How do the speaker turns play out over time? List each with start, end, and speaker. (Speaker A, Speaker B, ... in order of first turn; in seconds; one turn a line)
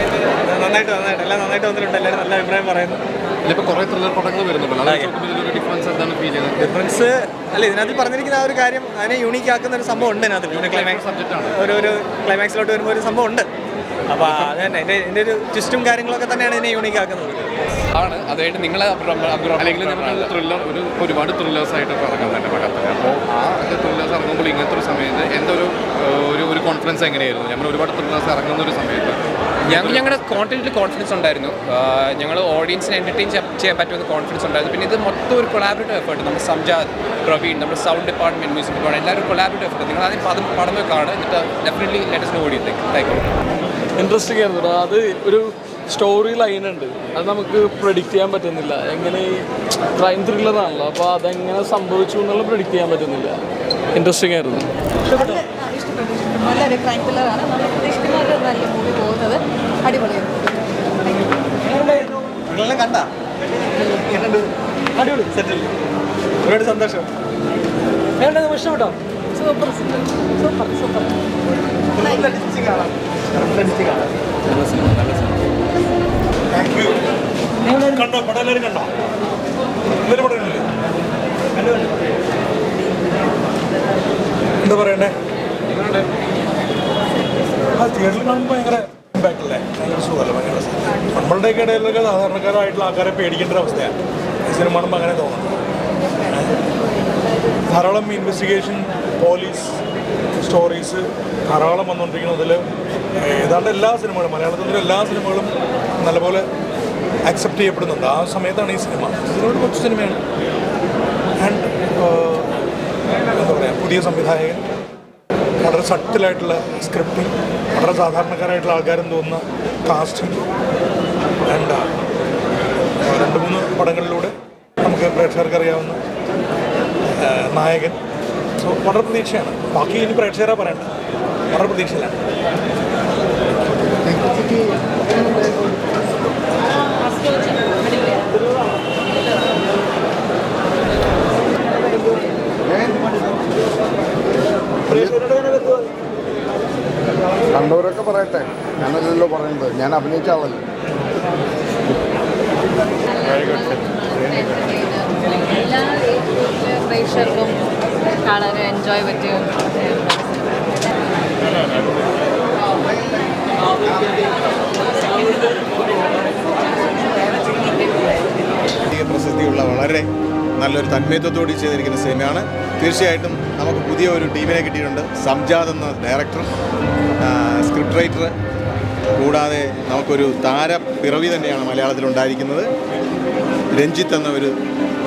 Speaker A: 0.4-3.0
Speaker B: 3.5-6.6
Speaker A: 4.8-5.2
Speaker A: 6.6-13.5
Speaker B: 10.0-11.5
Speaker A: 14.1-17.5
Speaker B: 14.2-14.6
Speaker C: 17.9-20.3
Speaker B: 19.6-30.2
Speaker C: 29.7-43.2
Speaker D: 44.0-49.4
Speaker D: 50.0-53.4
Speaker D: 54.0-54.7
Speaker E: 55.1-60.4
Speaker A: 61.7-63.1
Speaker A: 63.8-65.7
Speaker A: 66.4-67.1
Speaker A: 68.2-69.0
Speaker E: 69.4-69.9
Speaker E: 70.6-71.0
Speaker A: 72.0-74.1
Speaker F: 76.5-77.0
Speaker F: 77.7-78.9
Speaker F: 80.0-80.7
Speaker F: 84.6-85.1
Speaker F: 87.8-95.5
Speaker F: 96.3-96.6
Speaker F: 97.7-99.8
Speaker F: 100.4-102.7
Speaker F: 103.2-106.5
Speaker F: 107.3-110.2
Speaker F: 111.4-112.5
Speaker F: 113.3-114.6
Speaker F: 115.6-120.4
Speaker F: 121.5-121.9
Speaker F: 123.0-126.0
Speaker F: 127.1-128.0
Speaker F: 128.6-131.0
Speaker F: 131.5-132.2
Speaker G: 142.7-143.0
Speaker F: 144.9-145.8
Speaker G: 147.5-150.6
Speaker E: 153.1-160.7
Speaker H: 168.9-176.5
Speaker H: 177.2-178.3
Speaker H: 179.2-182.7
Speaker H: 183.7-184.5